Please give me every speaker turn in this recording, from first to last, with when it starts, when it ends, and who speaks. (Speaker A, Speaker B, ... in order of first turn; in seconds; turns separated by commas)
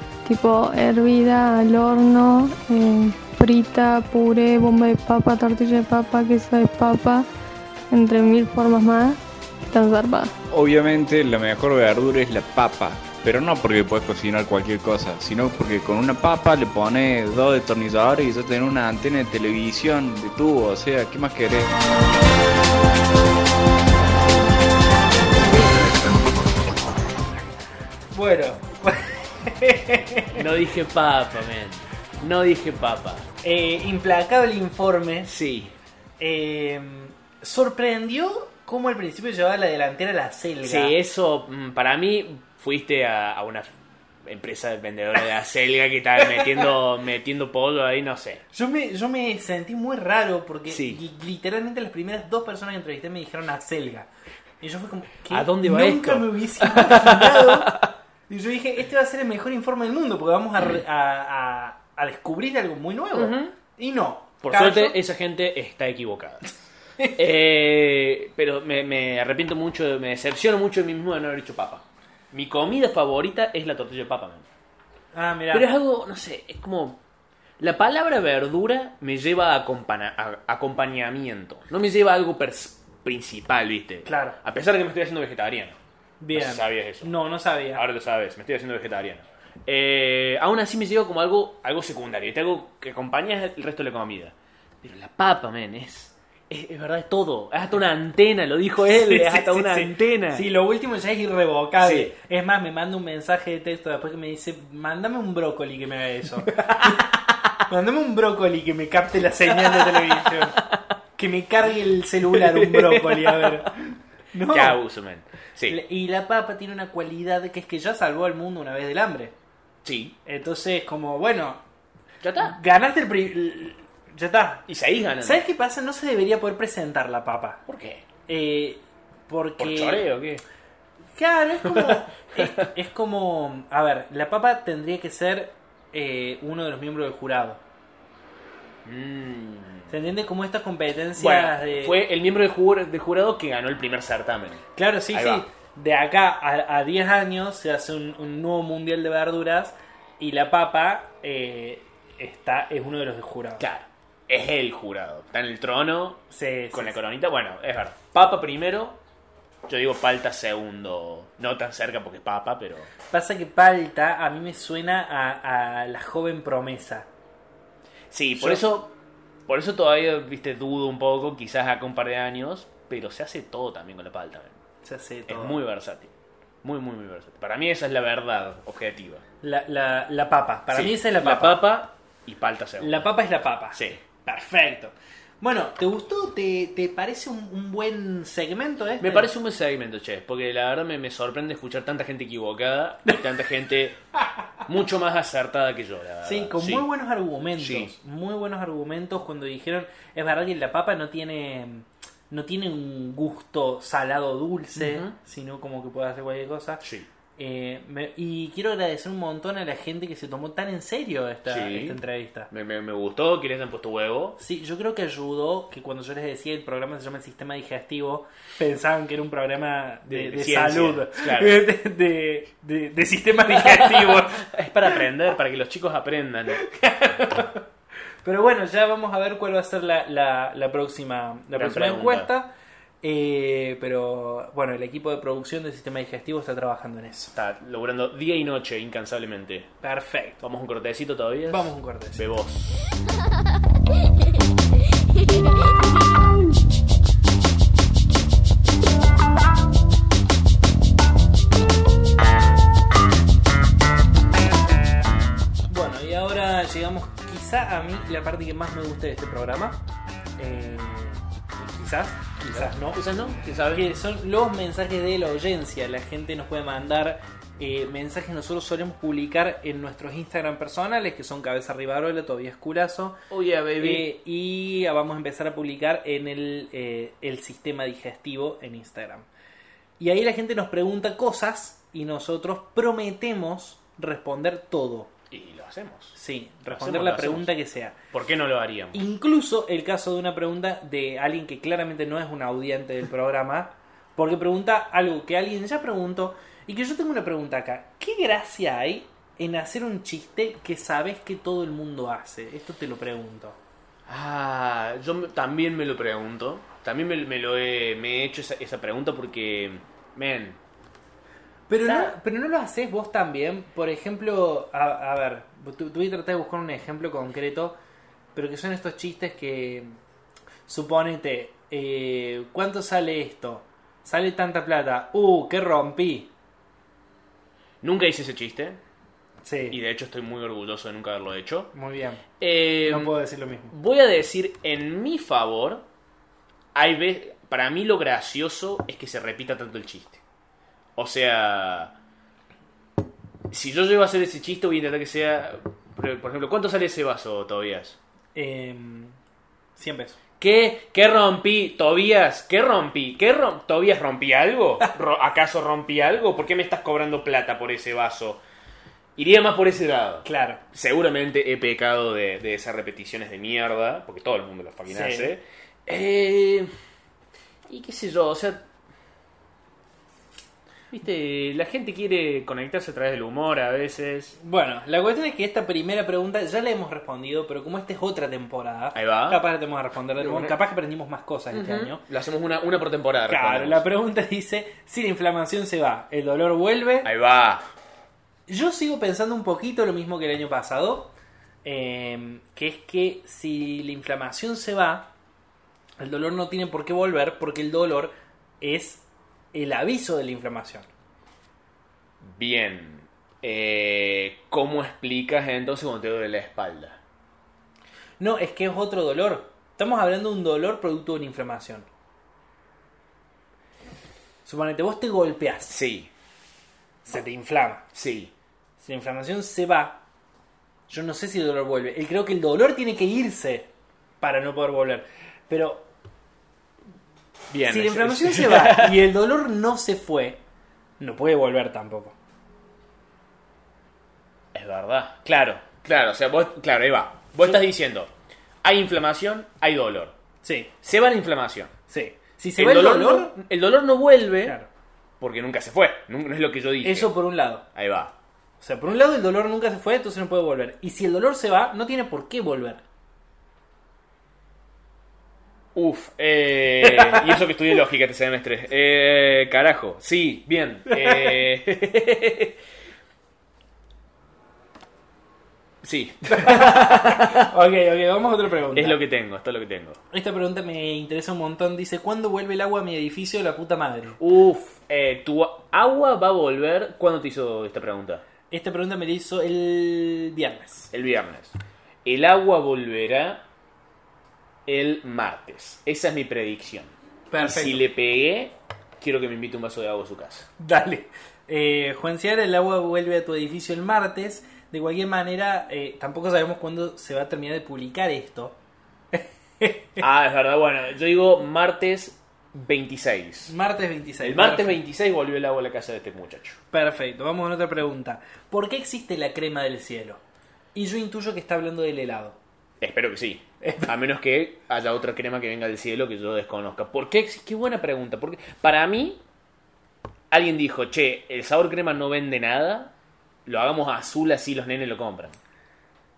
Speaker A: 0.2-7.3, Speaker A: 7.9-10.3, Speaker B: 10.5-21.7, Speaker C: 28.1-30.4, Speaker D: 30.3-33.2, Speaker C: 33.4-35.3, Speaker D: 35.2-35.7, Speaker C: 36.2-41.0, Speaker D: 40.6-43.7, Speaker D: 44.2-48.4, Speaker C: 48.5-54.1, Speaker D: 50.7-51.0, Speaker C: 54.6-57.7, Speaker D: 55.3-57.9, Speaker C: 58.3-65.0, Speaker D: 63.1-63.5, Speaker D: 64.4-66.6, Speaker D: 67.2-74.5, Speaker C: 75.1-75.7, Speaker D: 75.5-77.0, Speaker D: 77.6-85.8, Speaker C: 84.0-84.4, Speaker C: 86.2-87.8, Speaker D: 86.3-87.1, Speaker D: 87.7-100.5, Speaker C: 98.8-107.1, Speaker D: 101.8-102.1, Speaker C: 107.7-110.6, Speaker D: 109.7-110.4, Speaker C: 111.2-114.8, Speaker D: 112.3-113.7, Speaker D: 114.5-115.8, Speaker C: 115.7-119.3, Speaker D: 119.8-120.2, Speaker C: 120.2-121.6, Speaker D: 122.2-122.6, Speaker C: 122.4-124.7, Speaker D: 124.7-125.4, Speaker C: 125.2-127.6, Speaker D: 127.7-128.0, Speaker C: 128.3-130.1, Speaker D: 129.6-130.4, Speaker C: 131.2-137.6, Speaker D: 131.6-132.5, Speaker D: 138.8-139.9, Speaker C: 139.9-142.0, Speaker D: 141.2-145.4, Speaker C: 144.7-153.7, Speaker D: 153.6-159.0, Speaker C: 156.3-157.0, Speaker D: 159.7-162.9, Speaker C: 163.1-167.1, Speaker D: 168.1-168.9, Speaker C: 168.3-168.6, Speaker D: 169.5-174.6, Speaker C: 174.8-175.6, Speaker D: 175.3-176.1, Speaker D: 176.6-179.2, Speaker C: 179.4-181.7, Speaker D: 180.7-183.1, Speaker C: 182.8-189.3, Speaker D: 183.7-184.0, Speaker D: 189.0-194.0, Speaker D: 194.6-196.9, Speaker C: 196.2-206.8, Speaker D: 197.6-197.9, Speaker D: 204.8-205.1, Speaker D: 206.8-207.1, Speaker C: 207.4-212.5, Speaker D: 211.4-214.4, Speaker C: 214.4-224.5, Speaker D: 220.1-221.6, Speaker D: 223.4-226.6, Speaker C: 226.6-227.6, Speaker C: 228.2-232.5, Speaker D: 231.5-232.3, Speaker C: 233.0-237.3, Speaker D: 237.3-239.7, Speaker C: 239.8-240.4, Speaker D: 240.4-242.9, Speaker C: 241.5-242.2, Speaker C: 255.7-259.8, Speaker C: 260.4-263.0, Speaker D: 262.4-263.9, Speaker C: 263.7-273.2, Speaker D: 273.3-274.1, Speaker C: 273.8-279.3, Speaker C: 280.0-285.1, Speaker D: 285.3-287.5, Speaker C: 286.1-287.9, Speaker D: 288.1-289.0, Speaker C: 288.9-303.6, Speaker D: 304.1-310.6, Speaker C: 311.7-317.8, Speaker D: 311.8-312.1, Speaker C: 318.3-320.0, Speaker C: 320.7-326.3, Speaker D: 327.8-328.8, Speaker C: 329.4-329.8, Speaker D: 329.7-331.7, Speaker C: 331.7-332.2, Speaker D: 332.4-333.1, Speaker C: 332.8-333.7, Speaker D: 333.7-335.8, Speaker D: 336.7-340.2, Speaker D: 340.9-341.9, Speaker D: 343.5-348.0, Speaker C: 348.3-349.1, Speaker C: 349.8-350.2, Speaker D: 350.4-358.4, Speaker D: 359.1-366.7, Speaker C: 360.2-360.6, Speaker C: 364.9-365.3, Speaker D: 367.7-368.6, Speaker D: 370.9-374.4, Speaker C: 374.4-382.0, Speaker D: 378.9-379.4, Speaker D: 380.2-380.6, Speaker D: 381.5-383.8, Speaker C: 383.3-387.1, Speaker D: 387.0-387.6, Speaker C: 388.5-391.1, Speaker C: 391.6-395.1, Speaker C: 396.0-400.9, Speaker D: 402.2-407.0, Speaker C: 408.2-411.9, Speaker C: 414.4-415.8, Speaker D: 415.7-416.1, Speaker C: 417.1-417.8, Speaker D: 417.9-418.3, Speaker C: 418.8-420.0, Speaker C: 420.9-423.7, Speaker C: 424.2-425.9, Speaker D: 427.5-429.0, Speaker C: 427.7-430.4, Speaker C: 431.0-432.1, Speaker D: 434.5-438.1, Speaker D: 438.6-440.1, Speaker C: 440.4-440.7, Speaker D: 440.8-441.7, Speaker C: 441.9-443.4, Speaker D: 442.6-444.6, Speaker C: 444.4-444.7, Speaker D: 445.2-447.1, Speaker C: 446.8-447.6, Speaker D: 447.7-448.1, Speaker C: 448.6-452.8, Speaker D: 455.7-462.6, Speaker C: 457.1-457.3, Speaker C: 460.9-461.4, Speaker D: 465.8-467.5, Speaker C: 466.3-469.0, Speaker D: 468.7-470.0, Speaker C: 470.1-474.2, Speaker D: 474.2-478.2, Speaker C: 478.5-480.9, Speaker D: 480.9-483.4, Speaker D: 484.6-490.5, Speaker C: 487.3-487.9, Speaker C: 490.6-498.6, Speaker C: 499.1-500.0, Speaker D: 500.0-503.5, Speaker C: 503.5-504.8, Speaker D: 504.2-506.6, Speaker C: 506.7-510.2, Speaker C: 510.7-512.4, Speaker D: 512.8-519.2, Speaker C: 513.6-513.9, Speaker D: 520.3-522.9, Speaker D: 523.5-525.4